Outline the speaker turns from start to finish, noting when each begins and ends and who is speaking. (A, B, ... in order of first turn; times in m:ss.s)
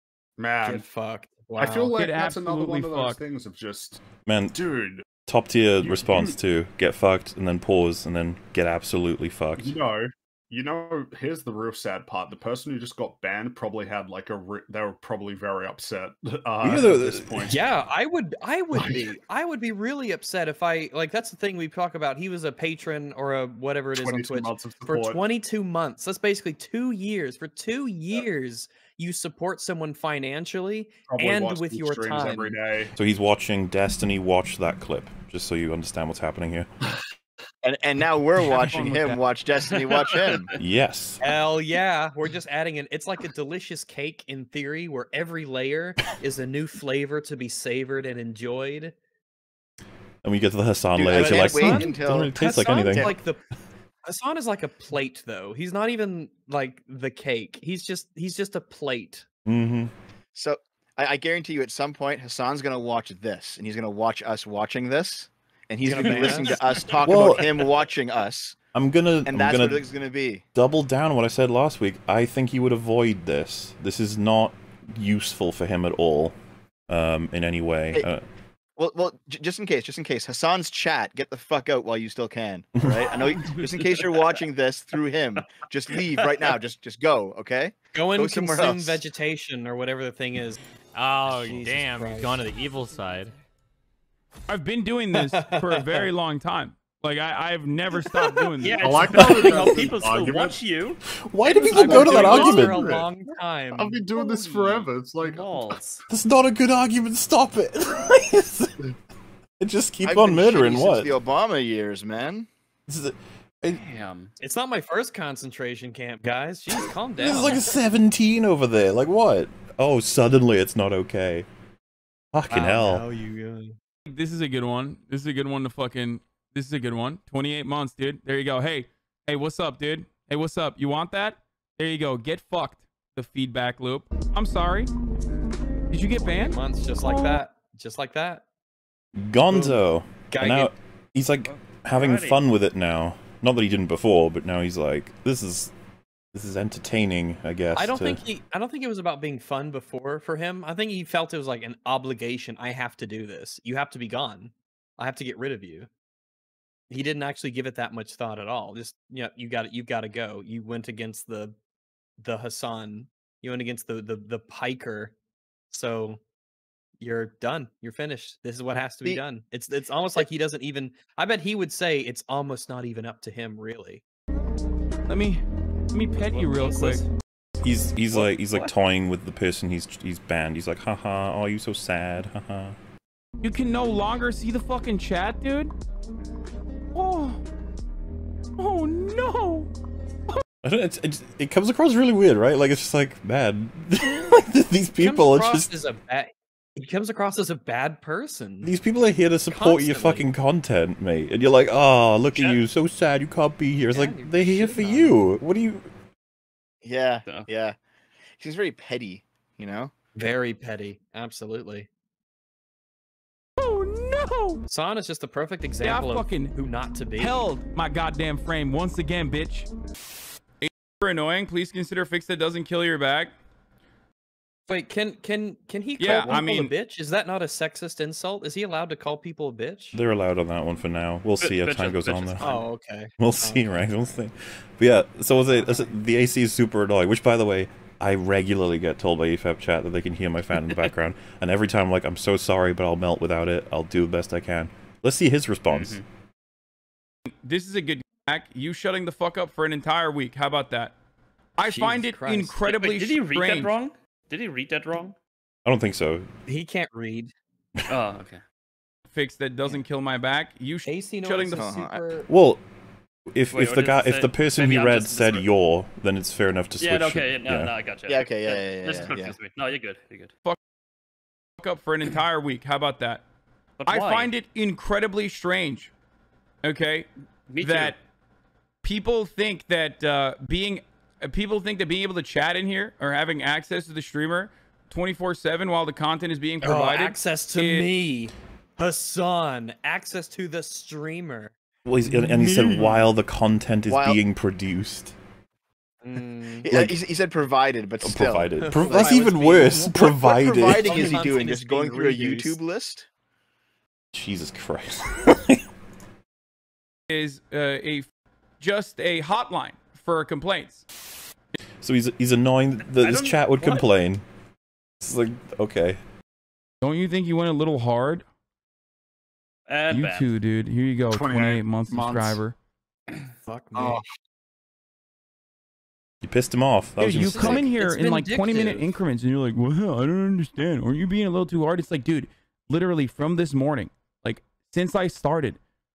0:00.4-0:00.8 A
0:00.6-0:01.9 B
0:01.6-0:04.0 A
0:01.9-0:03.2 C
0:04.2-0:04.6 D
0:04.5-0:05.0 A
0:05.2-0:09.8 D
0:05.8-0:06.3 A
0:09.6-0:17.6 A
0:16.6-0:17.5 D
0:17.5-0:32.6 B
0:18.7-0:19.1 A
0:23.9-0:25.2 A
0:31.1-0:32.9 A
0:33.0-0:36.7 D
0:37.6-0:40.5 E
0:38.4-0:39.2 C
0:39.9-0:40.6 F
0:40.6-0:41.2 D
0:41.2-0:48.9 B
0:50.2-0:53.2 D
0:51.1-0:53.2 E
0:51.1-0:53.4 B
0:54.0-0:59.2 B
0:59.5-0:59.9 D
1:00.3-1:08.6 E
1:05.8-1:06.6 B
1:06.0-1:07.8 F
1:07.0-1:07.4 D
1:08.7-1:09.8 D
1:09.2-1:10.4 E
1:10.5-1:16.4 D
1:16.9-1:18.2 D
1:18.8-1:29.0 E
1:23.1-1:24.3 F
1:25.4-1:26.5 F
1:27.9-1:30.6 B
1:30.9-1:33.3 G
1:31.2-1:32.4 B
1:34.5-1:38.9 C
1:35.1-1:36.1 B
1:38.6-1:41.0 F
1:38.8-1:40.6 A
1:39.2-1:39.7 D
1:41.2-1:42.9 D
1:41.7-1:44.0 B
1:41.7-1:43.1 A
1:43.7-1:45.8 A
1:44.1-1:46.0 F
1:46.1-1:48.7 D
1:49.6-1:51.1 D
1:50.0-1:52.5 E
1:52.9-1:53.8 D
1:53.7-1:54.3 F
1:54.4-1:57.8 B
1:57.2-2:01.5 D
2:02.3-2:03.0 D
2:02.5-2:03.8 B
2:04.1-2:14.9 C
2:15.9-2:17.4 C
2:16.2-2:18.4 B
2:19.2-2:25.7 D
2:19.5-2:20.7 B
2:21.4-2:22.4 F
2:26.3-2:28.2 D
2:27.7-2:35.9 B
2:36.9-2:41.5 B
2:42.2-2:45.1 B
2:45.7-2:46.2 B
2:47.0-2:54.0 B
2:55.1-2:57.0 C
2:56.2-2:57.0 B
2:57.6-3:02.7 D
2:58.1-2:58.7 B
3:03.4-3:05.7 C
3:06.9-3:07.4 C
3:08.6-3:09.7 C
3:10.6-3:15.7 D
3:15.0-3:18.7 B
3:18.6-3:25.8 D
3:19.5-3:20.2 B
3:22.4-3:22.6 F
3:23.9-3:25.1 B
3:26.8-3:27.8 E
3:27.2-3:27.5 F
3:28.4-3:29.9 E
3:30.2-3:31.9 B
3:33.6-3:34.6 C
3:34.7-3:37.5 B
3:35.8-3:36.5 C
3:37.2-3:39.7 C
3:40.6-3:43.3 C
3:44.7-3:50.0 B
3:46.0-3:46.7 C
3:49.9-3:52.6 D
3:51.4-3:52.6 F
3:52.4-3:53.9 B
3:53.2-4:06.0 D
4:00.6-4:00.9 F
4:05.7-4:06.0 F
4:07.4-4:10.9 C
4:11.6-4:13.7 C
4:11.6-4:12.6 B
4:12.6-4:15.2 F
4:15.6-4:16.3 D
4:16.5-4:17.3 B
4:17.9-4:18.4 F
4:19.1-4:21.7 C
4:20.8-4:22.3 B
4:21.5-4:22.0 E
4:22.3-4:22.6 D
4:23.3-4:27.7 D
4:23.5-4:25.5 F
4:26.8-4:30.3 F
4:28.1-4:29.4 E
4:31.6-4:33.2 C
4:33.8-4:34.3 F
4:33.9-4:35.9 C
4:36.6-4:37.1 C
4:37.5-4:37.9 F
4:37.6-4:38.0 C
4:38.8-4:47.8 C
4:46.6-4:51.5 B
4:51.8-4:55.1 D
4:52.1-4:53.0 A
4:53.9-4:54.2 E
4:56.0-4:56.9 B
4:56.6-4:58.5 E
4:58.0-5:01.0 D
4:58.6-5:02.6 B
5:00.2-5:03.1 E
5:04.1-5:05.6 D
5:07.1-5:08.0 C
5:08.6-5:10.8 C
5:11.8-5:14.2 D
5:12.8-5:13.8 F
5:15.0-5:16.0 D
5:16.8-5:18.2 C
5:19.7-5:20.3 F
5:19.9-5:22.5 C
5:21.1-5:22.4 A
5:23.5-5:24.0 B
5:23.7-5:24.0 A
5:26.2-5:27.6 D
5:27.0-5:35.6 C
5:27.3-5:28.9 B